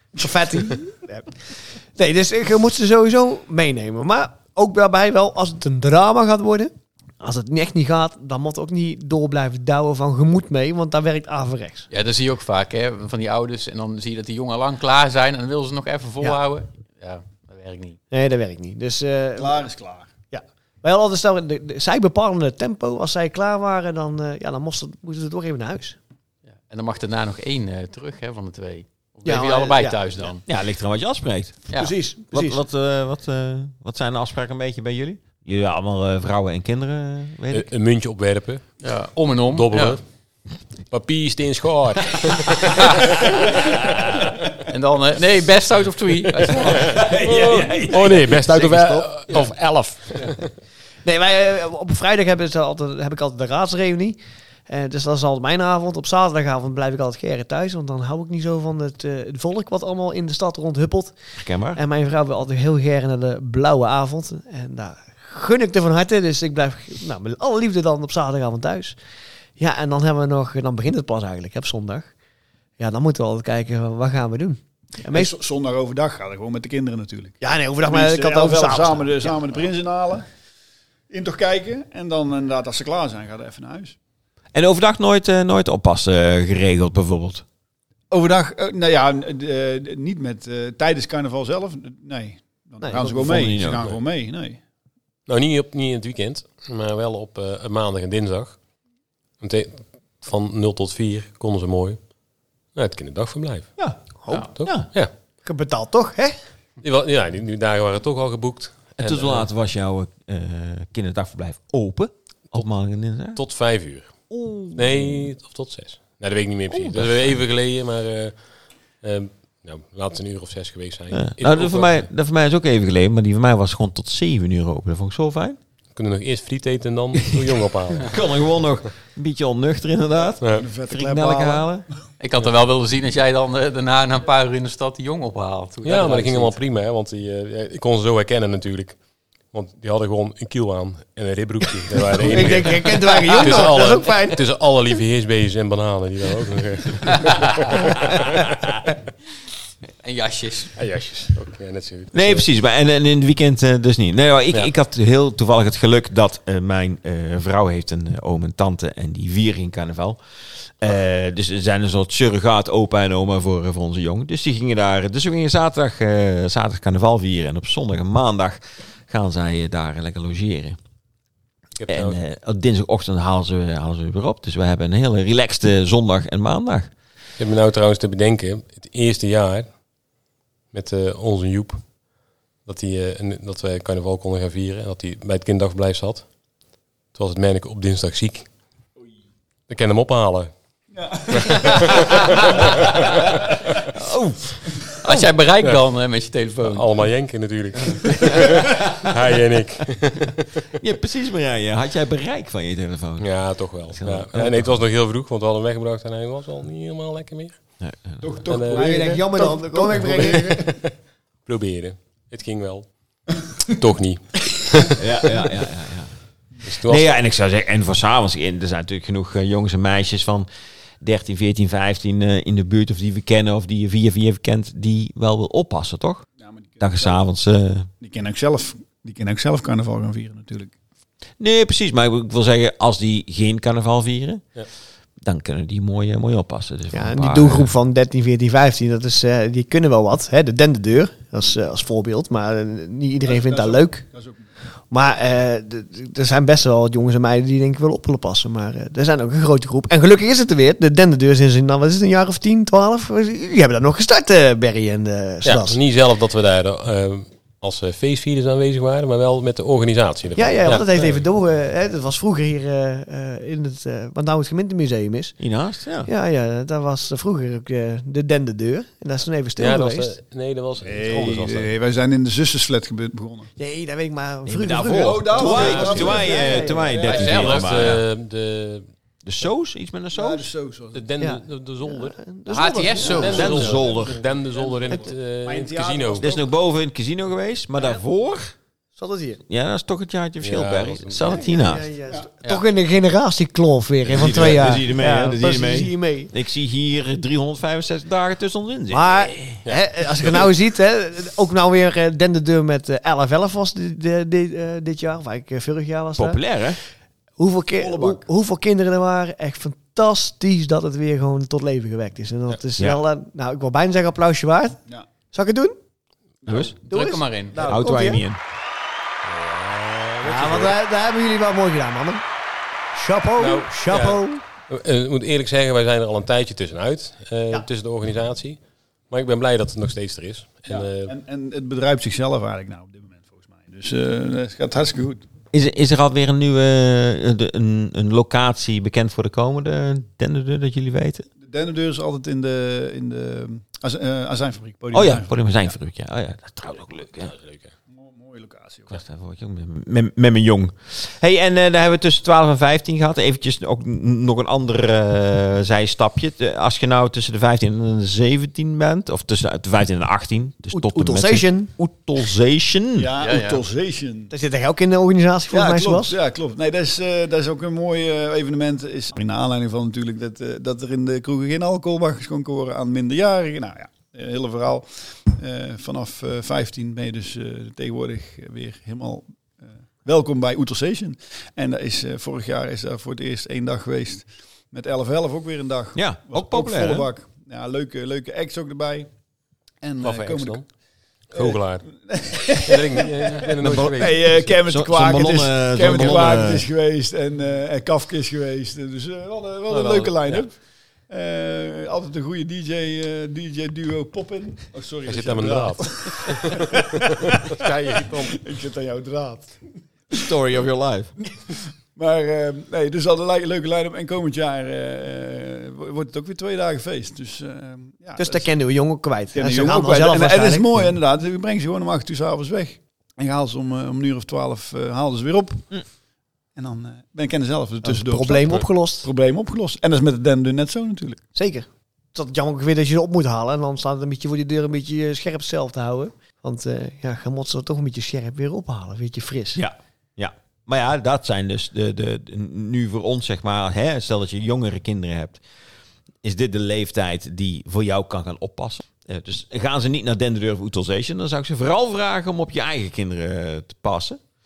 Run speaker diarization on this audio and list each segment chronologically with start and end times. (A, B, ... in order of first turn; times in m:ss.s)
0:00.1-0:11.9 A
0:11.9-0:18.0 B
0:18.1-0:19.6 A
0:19.4-0:20.1 C
0:20.3-0:26.0 A
0:26.6-0:30.4 B
0:29.2-0:30.0 A
0:30.4-0:31.7 D
0:31.7-0:31.9 B
0:31.7-0:32.6 A
0:32.3-0:37.7 D
0:37.5-0:38.8 E
0:38.8-0:40.0 B
0:39.4-0:40.0 E
0:40.9-0:44.6 E
0:44.7-0:47.2 B
0:46.7-0:48.3 D
0:47.0-0:50.5 E
0:48.5-0:49.5 B
0:51.0-1:01.1 A
1:01.4-1:01.8 D
1:01.7-1:09.0 A
1:09.6-1:12.1 A
1:12.8-1:15.3 A
1:15.1-1:20.2 C
1:17.4-1:19.4 A
1:21.1-1:24.0 C
1:24.5-1:27.4 D
1:28.1-1:34.6 C
1:32.8-1:33.4 A
1:33.1-1:33.9 D
1:35.3-1:38.6 E
1:39.4-1:42.0 E
1:42.7-1:43.7 E
1:44.2-1:44.5 A
1:44.3-1:45.1 E
1:44.6-1:44.9 D
1:45.4-1:46.3 A
1:46.8-1:49.5 E
1:49.0-1:53.4 D
1:53.4-1:54.1 E
1:54.3-1:54.9 D
1:54.7-1:58.4 E
1:56.7-1:57.4 D
1:59.0-2:02.1 E
2:01.1-2:05.6 D
2:05.9-2:08.2 E
2:08.1-2:11.8 D
2:10.4-2:10.7 E
2:10.5-2:11.7 C
2:12.2-2:16.6 B
2:15.8-2:19.0 E
2:19.5-2:28.8 E
2:22.0-2:24.4 A
2:30.0-2:30.8 B
2:30.8-2:32.4 E
2:32.1-2:40.2 D
2:40.8-2:50.8 D
2:51.8-2:52.2 E
2:51.9-2:56.9 D
2:57.4-2:59.7 E
3:00.7-3:01.9 E
3:02.6-3:06.3 E
3:07.1-3:08.5 E
3:09.7-3:10.5 E
3:10.9-3:12.1 C
3:11.3-3:13.8 E
3:13.9-3:14.5 D
3:15.0-3:17.0 B
3:16.6-3:20.5 E
3:18.0-3:18.4 B
3:20.8-3:24.7 D
3:23.2-3:27.6 E
3:27.8-3:28.3 D
3:28.2-3:30.4 C
3:28.4-3:29.0 E
3:28.7-3:30.7 A
3:29.9-3:30.9 E
3:31.4-3:32.9 E
3:33.6-3:35.4 E
3:35.0-3:36.1 D
3:36.6-3:37.2 E
3:36.7-3:40.5 D
3:41.0-3:46.2 D
3:46.4-3:47.2 C
3:46.8-3:47.9 D
3:48.0-3:50.7 C
3:51.4-3:54.4 D
3:55.2-3:57.7 D
3:56.9-4:04.0 A
4:03.2-4:04.5 C
4:04.9-4:15.8 A
4:15.4-4:21.2 E
4:20.3-4:25.4 A
4:25.4-4:26.1 D
4:26.0-4:30.2 A
4:29.6-4:31.7 E
4:30.8-4:33.5 C
4:33.6-4:37.0 A
4:34.4-4:38.0 D
4:34.9-4:37.8 C
4:37.0-4:37.6 B
4:37.1-4:38.9 E
4:39.2-4:40.4 D
4:40.1-4:41.1 C
4:40.9-4:42.2 E
4:41.2-4:43.5 A
4:42.5-4:43.8 B
4:43.1-4:46.3 E
4:43.2-4:44.2 D
4:43.2-4:46.4 C
4:46.2-4:48.5 D
4:49.0-4:49.4 A
4:49.5-4:51.9 D
4:50.4-4:51.3 E
4:51.2-4:56.3 A
4:54.0-4:59.3 D
4:58.9-5:06.4 A
4:59.6-5:00.5 E
5:06.2-5:06.8 D
5:07.4-5:14.8 A
5:07.8-5:08.2 C
5:12.8-5:13.0 D
5:15.3-5:15.8 A
5:16.4-5:16.7 C
5:16.4-5:16.8 D
5:16.7-5:17.7 B
5:16.9-5:18.2 A
5:17.6-5:18.4 D
5:19.2-5:20.8 E
5:20.2-5:22.2 A
5:22.9-5:24.4 A
5:23.4-5:31.1 E
5:30.7-5:35.2 C
5:35.5-5:41.2 D
5:41.4-5:45.7 C
5:44.9-5:47.3 D
5:47.0-5:47.7 E
5:47.9-5:49.0 C
5:48.9-6:03.1 D
6:00.7-6:01.7 A
6:02.9-6:04.3 C
6:03.2-6:03.6 B
6:04.3-6:06.1 A
6:05.5-6:29.1 C
6:26.0-6:27.1 D
6:29.8-6:30.6 C
6:30.0-6:30.6 E
6:31.3-6:31.9 E
6:31.3-6:40.5 C
6:32.5-6:34.6 E
6:34.7-6:36.6 D
6:35.8-6:36.6 E
6:39.7-6:40.5 E
6:41.1-6:47.5 C
6:45.0-6:48.4 E
6:48.2-6:49.6 C
6:50.1-6:51.1 D
6:51.5-6:58.5 C
6:58.2-7:00.9 A
6:59.3-7:05.8 C
7:06.6-7:11.2 C
7:07.8-7:09.1 A
7:11.3-7:19.6 A
7:19.5-7:25.4 D
7:26.2-7:34.2 D